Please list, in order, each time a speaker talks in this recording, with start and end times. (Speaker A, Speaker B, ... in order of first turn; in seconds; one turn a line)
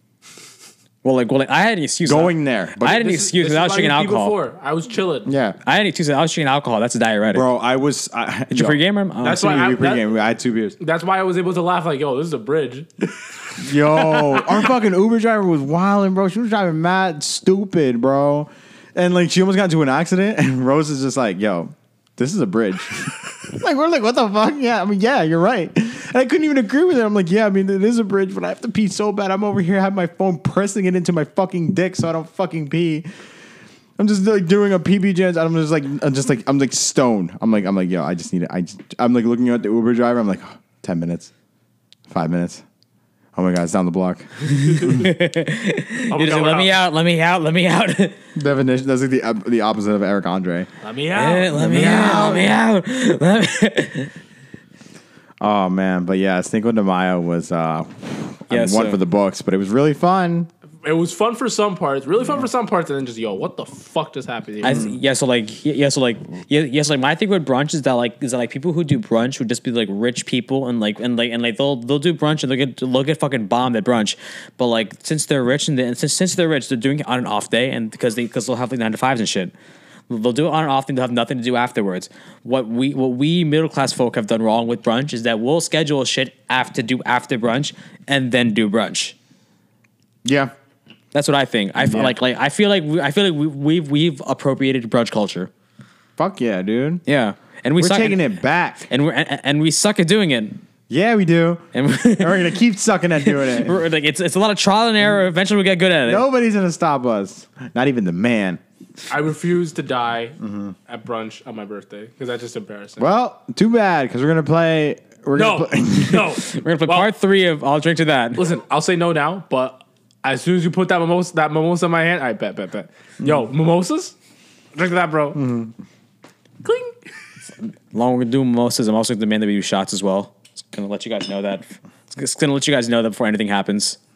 Speaker A: 1.0-4.3
Speaker B: 2.0-3.1
Speaker C: 2.8-5.3
Speaker B: 5.2-5.6
Speaker A: 5.6-7.5
Speaker B: 7.3-10.8
Speaker A: 8.5-9.6
Speaker C: 9.2-10.1
Speaker C: 10.8-14.6
Speaker B: 13.6-33.1
Speaker B: 34.0-41.3
Speaker B: 42.1-42.6
Speaker B: 43.3-45.1
Speaker C: 44.5-45.0
Speaker A: 44.8-48.2
Speaker C: 46.1-46.7
Speaker B: 48.3-50.7
Speaker C: 50.8-52.4
Speaker A: 51.1-54.1
Speaker B: 51.5-52.5
Speaker B: 55.4-60.5
Speaker A: 58.5-59.0
Speaker C: 60.8-64.9
Speaker A: 64.6-79.5
Speaker B: 64.6-65.0
Speaker A: 80.1-89.2
Speaker B: 90.2-90.5
Speaker A: 91.1-95.5
Speaker B: 91.8-92.2
Speaker B: 96.2-97.0
Speaker A: 97.1-98.3
Speaker B: 97.8-98.9
Speaker A: 98.9-100.6
Speaker B: 100.9-103.8
Speaker A: 101.7-102.6
Speaker A: 103.2-106.2
Speaker B: 106.0-108.6
Speaker C: 109.1-113.0
Speaker B: 110.4-110.8
Speaker B: 113.0-116.3
Speaker C: 115.3-117.1
Speaker A: 116.4-118.5
Speaker C: 118.4-124.2
Speaker C: 124.7-125.4
Speaker B: 125.3-125.7
Speaker C: 126.6-127.0
Speaker A: 127.9-134.0